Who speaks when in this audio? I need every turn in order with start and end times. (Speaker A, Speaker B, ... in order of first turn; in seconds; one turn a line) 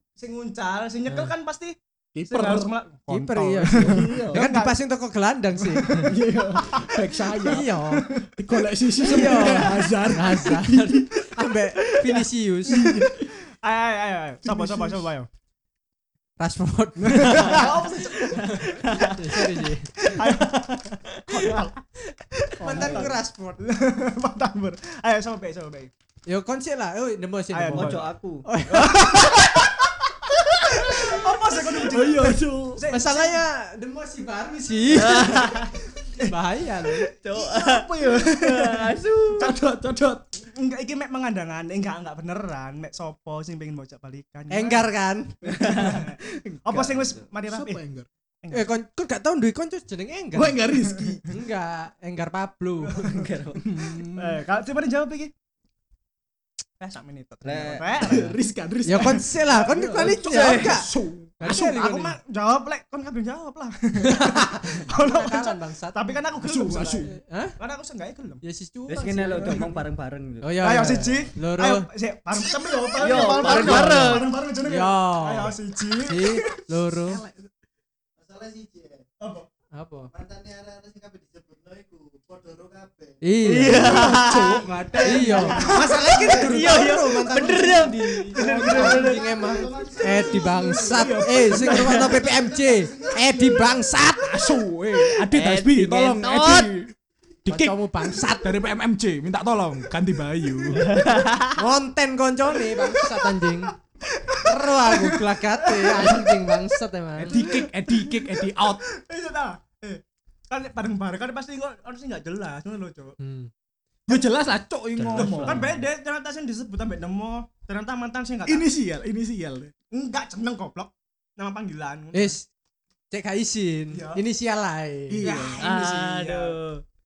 Speaker A: 0.2-1.8
Speaker B: 1.1-1.3
Speaker C: 2.1-2.7
Speaker A: 2.3-4.8
Speaker B: 3.1-6.2
Speaker C: 3.7-4.4
Speaker A: 5.6-8.3
Speaker C: 6.0-7.7
Speaker B: 7.4-8.1
Speaker C: 8.4-11.3
Speaker B: 9.0-12.9
Speaker A: 9.0-10.1
Speaker C: 12.7-13.3
Speaker A: 12.7-15.3
Speaker C: 14.4-15.1
Speaker B: 16.4-21.7
Speaker A: 17.0-21.7
Speaker D: 18.4-19.1
Speaker A: 22.3-25.9
Speaker B: 22.6-23.6
Speaker D: 22.7-23.1
Speaker B: 26.3-29.7
Speaker A: 27.5-28.1
Speaker D: 27.7-28.5
Speaker A: 28.7-33.4
Speaker B: 30.7-31.4
Speaker C: 31.6-32.8
Speaker B: 32.9-37.1
Speaker D: 34.9-35.7
Speaker A: 36.0-36.4
Speaker D: 37.2-39.5
Speaker C: 37.6-38.5
Speaker A: 38.0-38.7
Speaker C: 39.4-40.2
Speaker A: 40.4-44.9
Speaker B: 44.5-45.3
Speaker D: 45.5-47.3
Speaker A: 45.5-46.1
Speaker A: 46.6-47.8
Speaker C: 47.5-48.1
Speaker B: 48.5-50.7
Speaker C: 50.3-51.3
Speaker B: 51.3-53.3
Speaker A: 52.9-53.3
Speaker D: 53.1-53.6
Speaker C: 53.6-54.4
Speaker A: 54.1-55.3
Speaker A: 56.8-58.4
Speaker D: 57.4-58.0
Speaker C: 58.0-61.9
Speaker B: 58.9-60.9
Speaker D: 60.2-60.8
Speaker B: 61.4-62.2
Speaker A: 61.4-68.4
Speaker B: 64.0-66.2
Speaker C: 66.4-67.1
Speaker B: 67.1-67.6
Speaker B: 68.4-69.8
Speaker D: 68.9-70.7
Speaker A: 69.4-69.7
Speaker B: 70.4-71.9
Speaker A: 70.6-76.6
Speaker D: 73.0-74.3
Speaker B: 73.1-77.2
Speaker E: 78.2-79.0
Speaker A: 79.2-79.5
Speaker B: 79.7-80.1
Speaker E: 80.1-83.5
Speaker B: 83.2-84.1
Speaker D: 83.4-84.7
Speaker C: 83.6-86.7
Speaker B: 85.0-94.5
Speaker D: 85.6-89.1
Speaker A: 85.8-86.5
Speaker C: 88.3-89.2
Speaker A: 88.4-89.0
Speaker E: 88.7-93.7
Speaker C: 90.8-92.2
Speaker C: 94.2-96.9
Speaker D: 95.3-96.7
Speaker C: 97.5-101.1
Speaker B: 97.5-98.6
Speaker D: 100.8-101.6
Speaker B: 101.6-103.7
Speaker A: 102.7-103.2
Speaker A: 104.0-106.5
Speaker B: 104.4-107.5
Speaker C: 107.2-108.8
Speaker A: 107.2-113.2
Speaker B: 113.2-113.5
Speaker C: 114.1-115.8
Speaker D: 115.0-115.7
Speaker A: 115.2-118.7
Speaker C: 118.5-119.7
Speaker A: 119.9-122.3
Speaker B: 122.1-122.5
Speaker B: 123.1-125.3
Speaker A: 123.9-124.2
Speaker C: 125.1-125.6
Speaker A: 125.2-126.6
Speaker D: 125.6-126.8